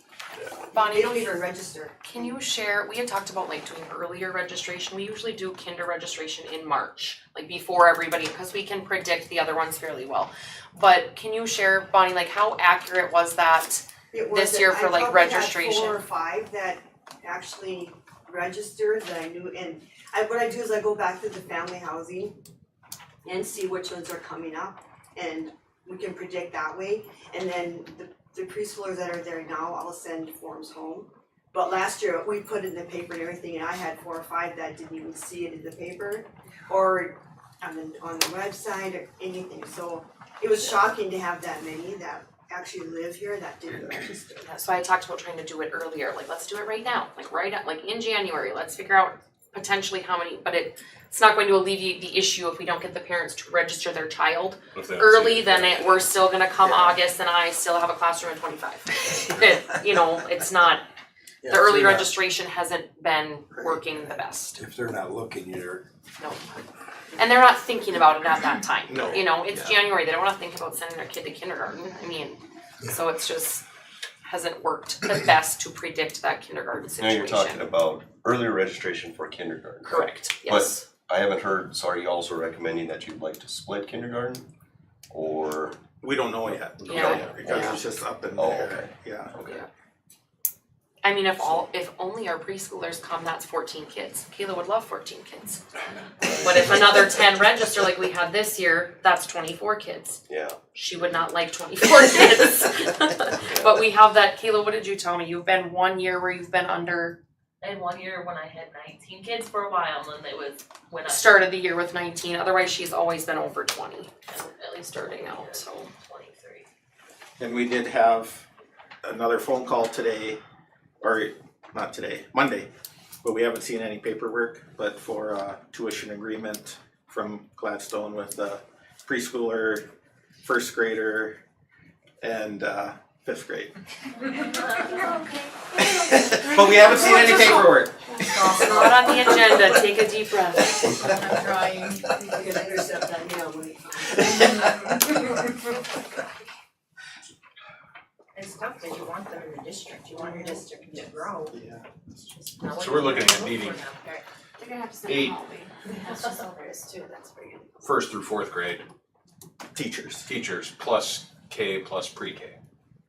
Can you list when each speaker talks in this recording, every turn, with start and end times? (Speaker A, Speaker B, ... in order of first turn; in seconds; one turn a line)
Speaker A: 0.7-2.4
Speaker B: 0.7-1.4
Speaker B: 2.0-16.0
Speaker A: 14.1-22.4
Speaker A: 23.2-44.5
Speaker B: 44.4-60.8
Speaker C: 54.7-56.0
Speaker D: 61.4-62.1
Speaker B: 61.5-64.6
Speaker D: 64.5-65.9
Speaker B: 67.2-73.6
Speaker E: 68.9-69.2
Speaker B: 74.2-77.7
Speaker F: 77.0-84.5
Speaker B: 79.8-80.8
Speaker F: 85.1-85.8
Speaker E: 86.0-89.4
Speaker F: 86.5-89.6
Speaker B: 86.9-87.7
Speaker B: 91.0-95.6
Speaker F: 96.2-97.2
Speaker B: 96.3-100.2
Speaker F: 100.3-101.0
Speaker B: 100.7-107.2
Speaker G: 107.6-111.4
Speaker B: 111.0-114.1
Speaker G: 114.3-116.7
Speaker B: 114.9-115.9
Speaker E: 117.4-118.5
Speaker E: 119.0-120.4
Speaker E: 121.0-122.7
Speaker E: 123.2-129.9
Speaker E: 130.4-131.4
Speaker E: 132.2-133.7
Speaker E: 135.8-138.9
Speaker B: 138.5-140.9
Speaker H: 141.0-141.4
Speaker A: 142.2-144.9
Speaker A: 148.3-151.5
Speaker G: 150.1-151.3
Speaker E: 151.5-152.1
Speaker G: 152.6-154.2
Speaker C: 152.7-153.8
Speaker H: 154.6-157.4
Speaker C: 155.0-155.4
Speaker C: 157.8-158.8
Speaker E: 159.7-160.3
Speaker C: 160.2-162.6